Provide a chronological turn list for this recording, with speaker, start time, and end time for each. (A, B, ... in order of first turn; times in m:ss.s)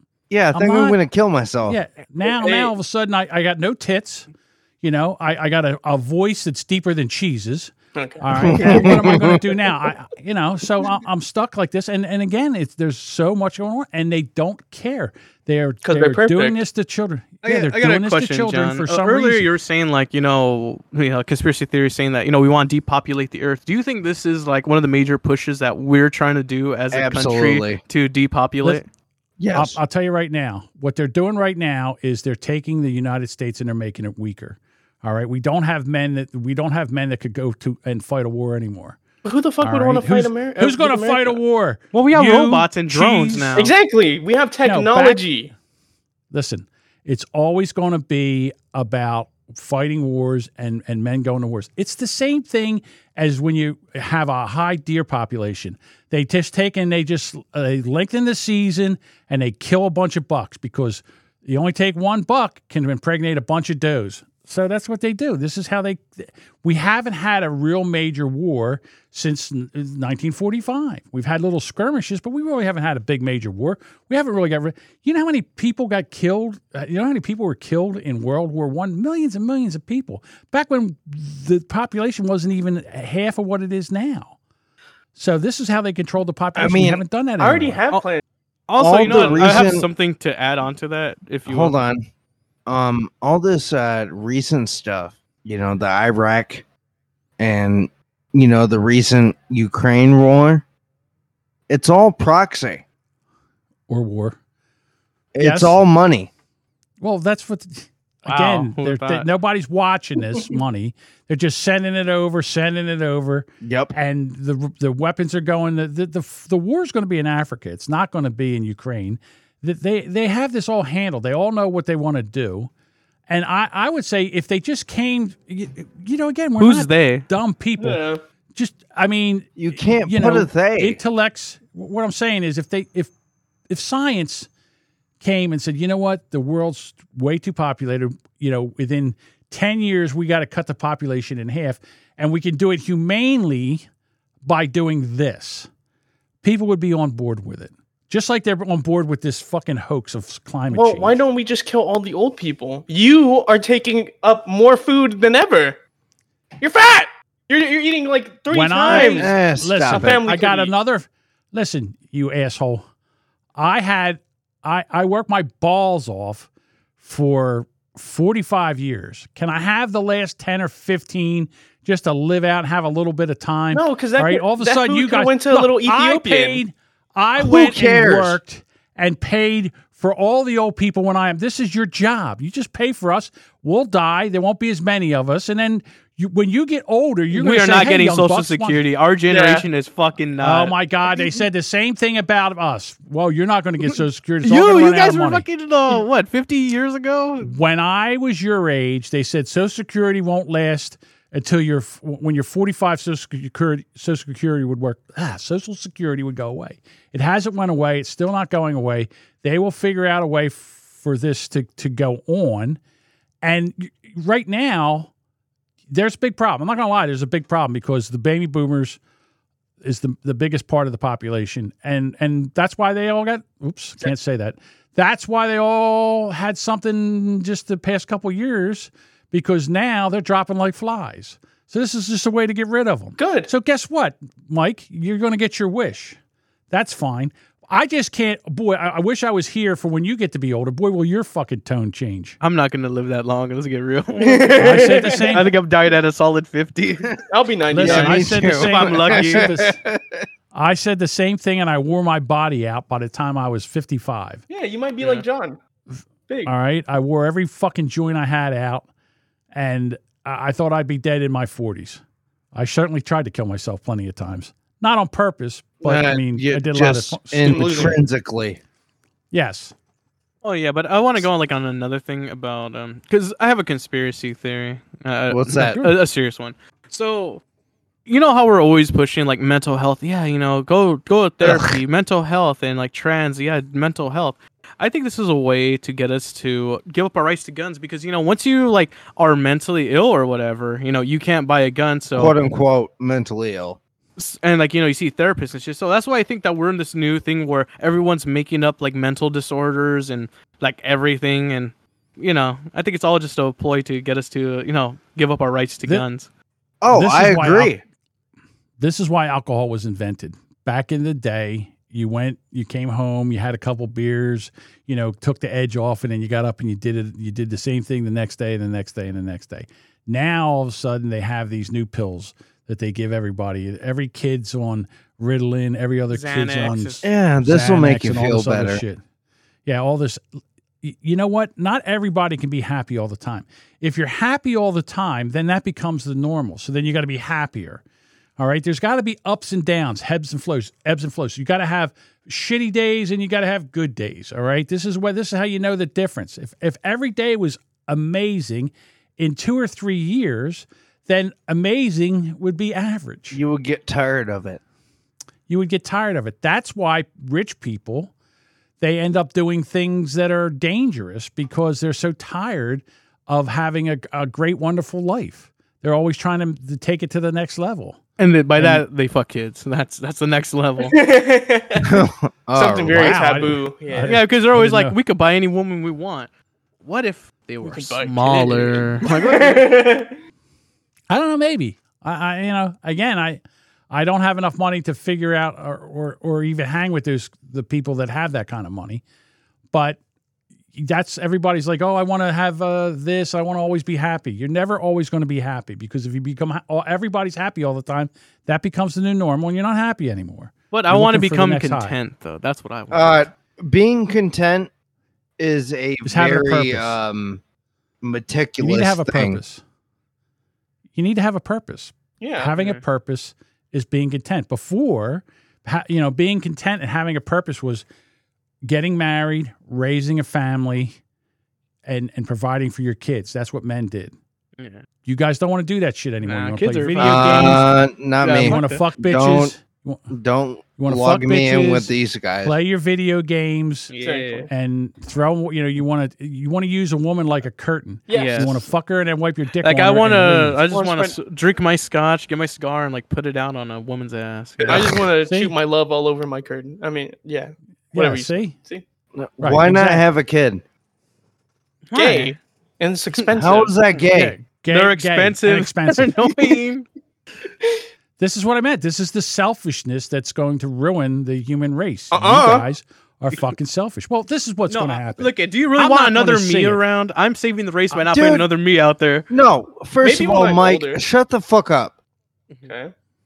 0:00.3-0:01.8 A
0:00.5-0:01.0 B
0:01.7-0:04.3 B
0:02.4-0:02.7 C
0:04.8-0:19.5 B
0:08.0-0:09.2 C
0:08.4-0:09.4 A
0:15.8-0:16.6 C
0:17.4-0:28.8 D
0:26.9-0:27.8 A
0:29.4-0:29.8 A
0:29.5-0:39.0 B
0:39.2-0:41.4 C
0:39.6-0:43.6 B
0:41.9-0:43.7 D
0:43.5-0:45.5 C
0:44.6-0:45.2 B
0:46.3-1:24.4 B
1:25.2-1:27.8 B
1:26.6-1:27.0 A
1:27.4-1:28.2 C
1:28.7-1:31.8 D
1:28.8-1:29.9 A
1:29.0-1:29.7 C
1:31.5-1:32.1 A
1:32.7-1:36.6 A
1:37.4-1:40.6 A
1:41.7-1:42.8 A
1:43.9-1:44.4 B
1:45.3-1:46.3 A
1:45.4-1:45.8 B
1:47.0-2:02.7 B
1:48.3-1:49.3 D
1:53.6-1:53.9 A
2:03.3-2:08.0 B
2:06.6-2:07.3 D
2:07.8-2:08.2 C
2:08.6-2:13.1 B
2:09.6-2:11.0 A
2:13.7-2:14.5 B
2:15.2-2:23.9 B
2:24.4-2:25.7 B
2:26.4-2:31.2 B
2:30.7-2:35.8 C
2:36.6-2:39.3 C
2:38.5-2:42.9 B
2:38.9-2:40.2 A
2:39.8-2:40.7 C
2:43.6-2:46.5 B
2:47.0-3:08.8 B
2:53.7-2:56.6 C
2:57.4-2:58.4 A
3:07.3-3:10.8 D
3:09.3-3:09.7 C
3:10.4-3:15.4 B
3:14.4-3:17.5 D
3:17.4-3:32.8 B
3:33.4-3:35.1 B
3:35.9-3:39.0 B
3:39.8-3:56.2 B
3:53.2-3:53.5 C
3:56.7-4:02.4 B
4:02.4-4:07.2 D
4:04.2-4:05.5 C
4:04.6-4:05.5 B
4:07.3-4:08.3 C
4:07.7-4:09.8 B
4:07.8-4:10.2 A
4:07.9-4:09.5 D
4:10.5-4:14.4 B
4:14.5-4:15.6 C
4:15.0-4:15.3 D
4:16.5-4:18.9 B
4:19.5-4:22.0 B
4:22.5-4:28.0 B
4:25.8-4:28.6 A
4:27.4-4:28.0 C
4:29.3-4:29.7 B
4:30.4-4:37.4 D
4:35.3-4:35.8 A
4:35.6-4:35.9 B
4:38.1-4:52.4 D
4:41.4-4:41.8 A
4:52.1-4:53.8 A
4:54.2-5:06.3 D
5:06.8-5:07.8 A
5:06.9-5:07.8 B
5:08.8-5:29.0 B
5:26.1-5:27.0 D
5:27.0-5:28.8 A
5:29.6-5:30.2 B
5:30.8-5:37.8 B
5:38.4-5:53.4 B
5:53.3-5:54.6 A
5:55.5-5:58.1 B
5:58.8-6:08.0 B
6:08.2-6:11.0 D
6:08.6-6:08.8 B
6:10.8-6:14.2 C
6:11.8-6:13.3 A
6:12.9-6:15.0 B
6:14.0-6:16.3 D
6:16.8-6:19.7 D
6:17.6-6:20.2 C
6:21.1-6:23.4 B
6:23.9-6:29.0 B
6:29.7-6:30.0 B
6:30.7-6:42.0 B
6:40.7-6:43.3 D
6:42.9-6:44.7 A
6:45.4-6:47.4 A
6:46.0-6:47.0 B
6:48.0-6:49.4 A
6:48.6-6:49.6 B
6:51.0-6:57.8 B
6:52.2-6:52.5 C
6:58.6-7:01.0 B
7:01.9-7:04.2 B
7:04.6-7:04.8 D
7:05.0-7:07.7 B
7:06.2-7:08.8 D
7:07.0-7:09.5 A
7:08.4-7:10.1 B
7:10.1-7:12.6 A
7:10.8-7:13.9 B
7:13.9-7:14.5 D
7:13.9-7:14.5 C
7:14.5-7:20.6 B
7:18.1-7:18.7 C
7:18.1-7:18.6 D
7:19.6-7:25.1 D
7:20.7-7:21.2 C
7:24.6-7:28.8 C
7:24.7-7:25.6 B
7:27.9-7:28.6 B
7:29.1-7:30.6 A
7:29.4-7:30.1 B
7:31.9-7:32.4 D
7:32.0-7:33.8 C
7:33.4-7:34.4 A
7:34.1-7:36.4 B
7:34.7-7:36.9 D
7:38.2-7:46.8 B
7:42.1-7:42.7 C
7:44.7-7:49.3 D
7:48.0-7:48.5 A
7:49.3-7:51.9 A
7:50.0-7:51.0 C
7:52.7-7:52.9 C